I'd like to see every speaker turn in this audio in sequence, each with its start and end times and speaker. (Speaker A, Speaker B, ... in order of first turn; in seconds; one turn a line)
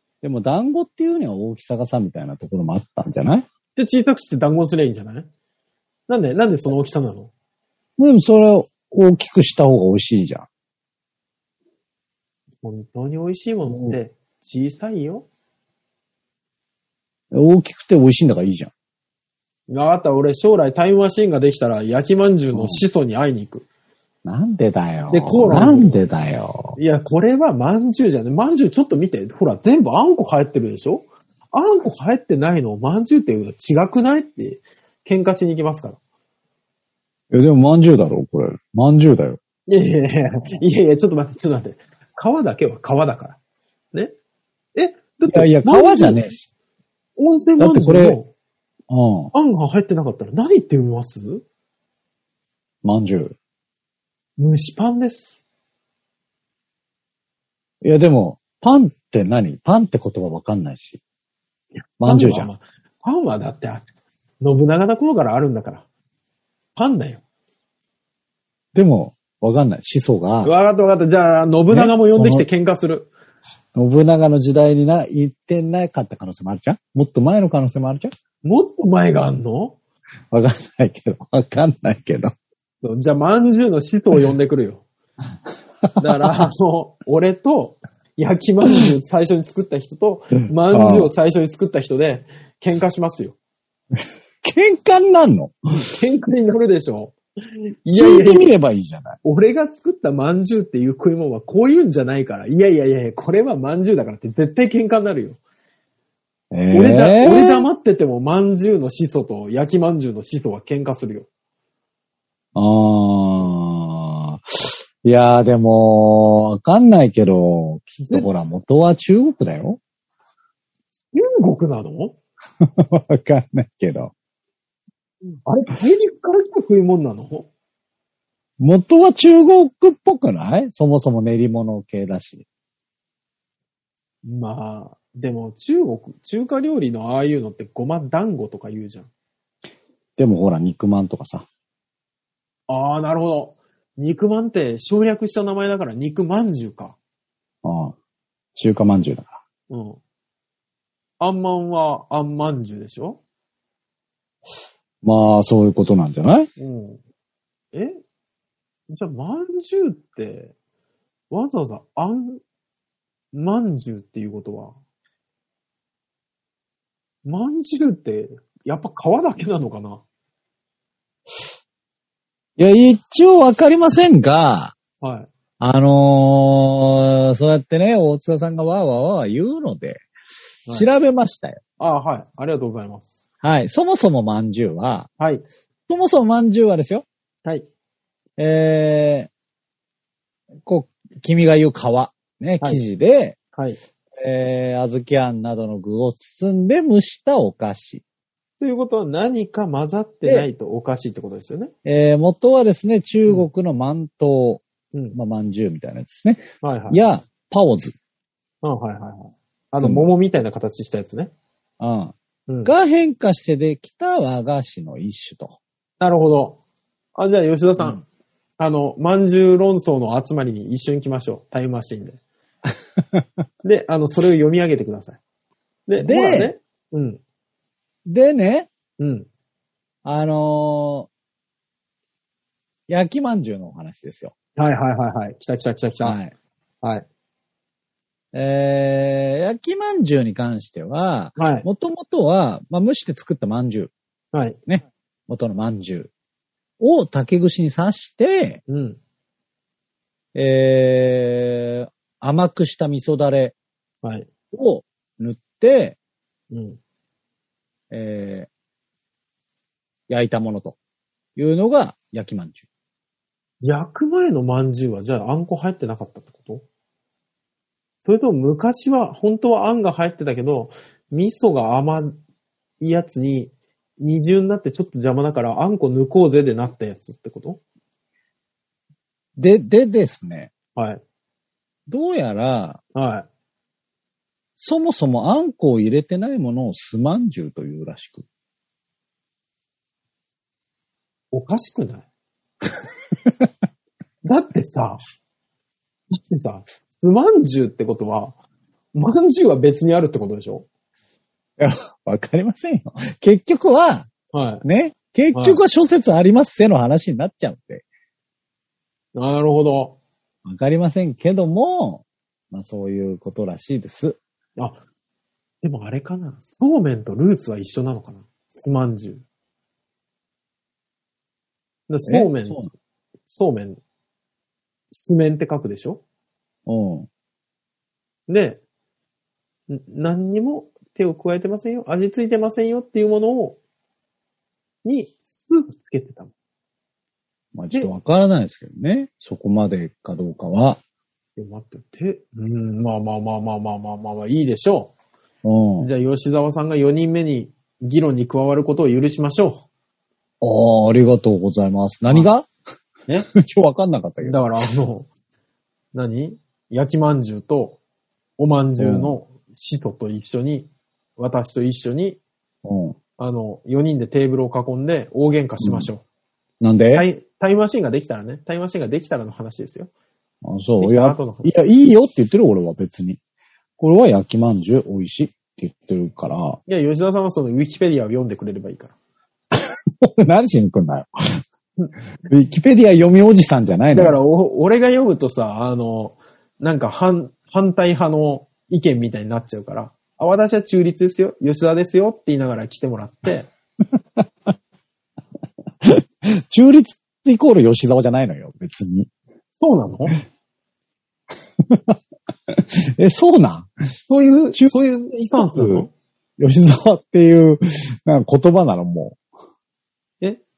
Speaker A: 0.2-3.5
Speaker B: 3.8-5.3
Speaker B: 6.1-7.3
Speaker A: 8.0-10.5
Speaker B: 12.6-15.3
Speaker A: 13.7-14.0
Speaker A: 17.3-18.7
Speaker B: 19.7-23.7
Speaker A: 22.5-22.8
Speaker A: 24.2-26.8
Speaker B: 25.1-26.0
Speaker B: 26.8-36.0
Speaker A: 37.3-39.4
Speaker B: 39.7-43.4
Speaker B: 44.8-46.2
Speaker A: 45.3-46.5
Speaker B: 47.2-48.3
Speaker A: 47.6-48.2
Speaker A: 48.9-49.3
Speaker B: 49.3-51.4
Speaker A: 52.8-53.4
Speaker B: 54.4-55.3
Speaker A: 57.8-61.0
Speaker A: 62.0-62.5
Speaker B: 62.0-63.9
Speaker B: 64.4-65.8
Speaker B: 66.8-67.2
Speaker A: 68.8-70.5
Speaker B: 70.4-73.1
Speaker A: 71.7-72.5
Speaker A: 73.8-78.1
Speaker B: 78.4-79.8
Speaker A: 80.3-82.3
Speaker B: 82.8-84.8
Speaker A: 85.8-86.4
Speaker B: 86.0-93.4
Speaker A: 90.7-91.1
Speaker A: 94.0-95.6
Speaker B: 95.9-97.2
Speaker B: 97.9-98.5
Speaker A: 98.0-99.2
Speaker B: 99.2-105.4
Speaker A: 106.5-107.7
Speaker B: 106.7-111.3
Speaker A: 112.5-119.8
Speaker B: 121.1-122.2
Speaker A: 122.6-124.1
Speaker B: 125.5-127.5
Speaker A: 128.6-132.4
Speaker B: 134.2-139.1
Speaker A: 140.2-141.5
Speaker B: 142.7-147.0
Speaker A: 147.6-148.0
Speaker A: 148.6-149.4
Speaker B: 149.7-150.0
Speaker B: 151.2-153.2
Speaker A: 155.0-156.5
Speaker B: 156.6-157.0
Speaker B: 157.7-158.0
Speaker B: 158.9-160.5
Speaker B: 161.3-162.4
Speaker B: 163.3-164.8
Speaker B: 167.2-170.0
Speaker A: 172.6-174.8
Speaker B: 175.0-175.3
Speaker A: 175.6-180.1
Speaker A: 180.7-181.6
Speaker B: 181.8-183.2
Speaker A: 183.4-185.1
Speaker B: 185.2-185.4
Speaker A: 185.9-187.1
Speaker A: 188.4-189.3
Speaker A: 190.7-193.4
Speaker A: 194.2-198.0
Speaker B: 198.6-201.7
Speaker A: 201.8-208.0
Speaker B: 206.6-207.0
Speaker B: 208.6-211.3
Speaker A: 209.8-210.1
Speaker A: 211.8-215.6
Speaker B: 212.5-212.7
Speaker B: 216.0-216.6
Speaker B: 217.2-218.0
Speaker B: 218.6-222.2
Speaker A: 223.0-223.3
Speaker B: 223.6-225.2
Speaker B: 225.9-227.2
Speaker A: 226.0-226.5
Speaker A: 228.1-228.7
Speaker B: 229.0-229.3
Speaker A: 230.1-231.1
Speaker A: 232.9-234.3
Speaker B: 234.6-236.2
Speaker A: 236.0-236.3
Speaker A: 238.3-243.9
Speaker B: 241.4-241.7
Speaker B: 244.3-244.6
Speaker A: 244.7-246.1
Speaker A: 246.8-248.6
Speaker B: 248.7-249.0
Speaker A: 250.3-253.6
Speaker A: 254.5-256.0
Speaker B: 256.5-256.8
Speaker A: 257.9-258.5
Speaker A: 260.1-260.8
Speaker A: 261.4-262.6
Speaker B: 263.6-266.6
Speaker B: 268.0-272.2
Speaker B: 272.8-277.6
Speaker A: 279.4-280.5
Speaker B: 280.8-281.0
Speaker A: 281.9-282.8
Speaker B: 282.9-283.3
Speaker A: 284.6-288.2
Speaker B: 291.3-292.1
Speaker B: 294.2-295.0
Speaker B: 296.1-298.4
Speaker B: 298.9-300.7
Speaker A: 301.6-304.1
Speaker B: 304.3-304.6
Speaker A: 304.6-307.9
Speaker B: 305.3-305.6
Speaker B: 309.1-310.0
Speaker A: 310.4-314.2
Speaker B: 314.6-314.8
Speaker B: 315.6-319.2
Speaker B: 321.9-322.6
Speaker A: 322.1-322.7
Speaker B: 323.3-323.8
Speaker B: 324.9-326.0
Speaker A: 326.7-327.1
Speaker B: 328.3-328.6
Speaker B: 329.7-333.6
Speaker B: 334.9-336.3
Speaker A: 337.6-340.8
Speaker B: 341.4-344.9
Speaker A: 345.4-345.9
Speaker B: 345.8-349.6
Speaker A: 350.4-352.5
Speaker A: 353.4-354.4
Speaker B: 354.2-355.1
Speaker B: 355.9-357.8
Speaker B: 358.4-362.2
Speaker A: 358.8-359.2
Speaker A: 362.6-363.0
Speaker B: 363.2-366.0
Speaker A: 365.6-365.9
Speaker A: 366.6-367.1
Speaker B: 366.9-369.9
Speaker A: 370.4-373.2
Speaker B: 370.8-371.5
Speaker A: 373.8-376.6
Speaker B: 376.7-378.9
Speaker A: 379.5-381.4
Speaker A: 382.3-384.2
Speaker B: 383.9-393.5
Speaker A: 394.2-394.5
Speaker A: 395.8-399.1
Speaker B: 399.6-400.2
Speaker A: 401.6-402.0
Speaker A: 402.5-403.7
Speaker B: 404.1-405.9
Speaker A: 404.6-405.9
Speaker A: 406.4-409.2